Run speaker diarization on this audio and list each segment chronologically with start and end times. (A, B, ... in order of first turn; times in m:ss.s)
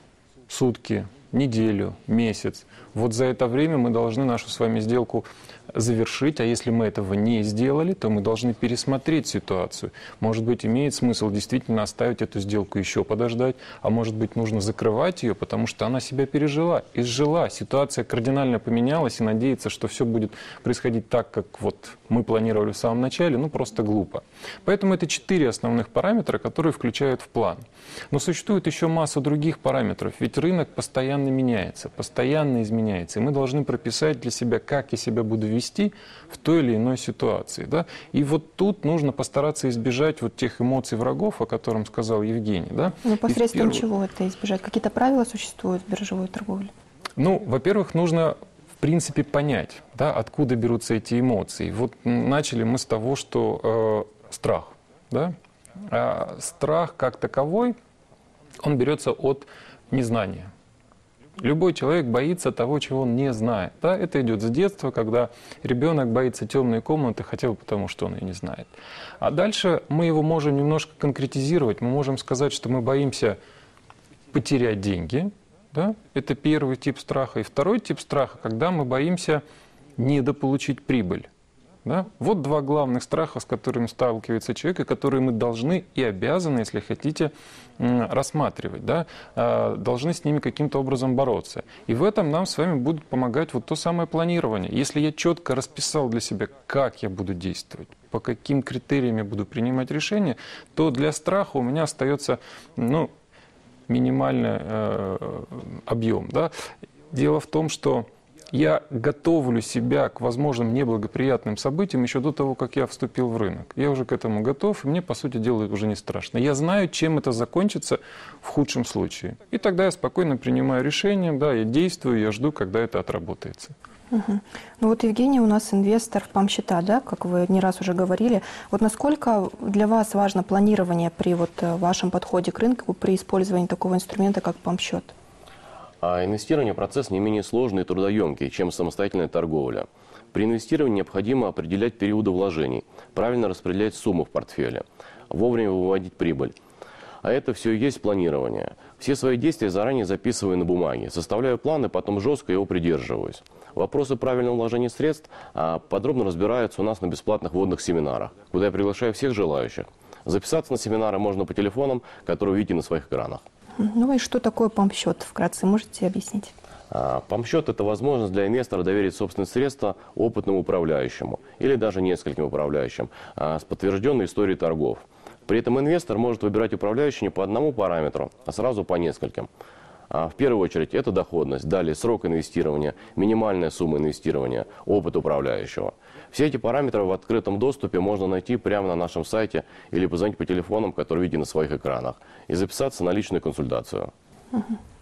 0:00.5-0:43.8 A
0:43.0-0:46.7 B
0:47.2-0:55.3 A
0:55.9-0:57.7 A
0:58.6-1:00.5 A
1:01.4-1:13.4 A
1:14.3-1:19.4 A
1:20.0-1:21.3 A
1:21.8-1:43.1 A
1:43.9-1:46.5 A
1:47.1-2:03.7 A
2:04.1-2:15.1 B
2:16.0-2:26.6 C
2:27.2-2:43.4 C
2:43.8-2:46.5 B
2:46.9-2:59.5 C
3:00.1-3:14.1 C
3:14.5-3:14.8 B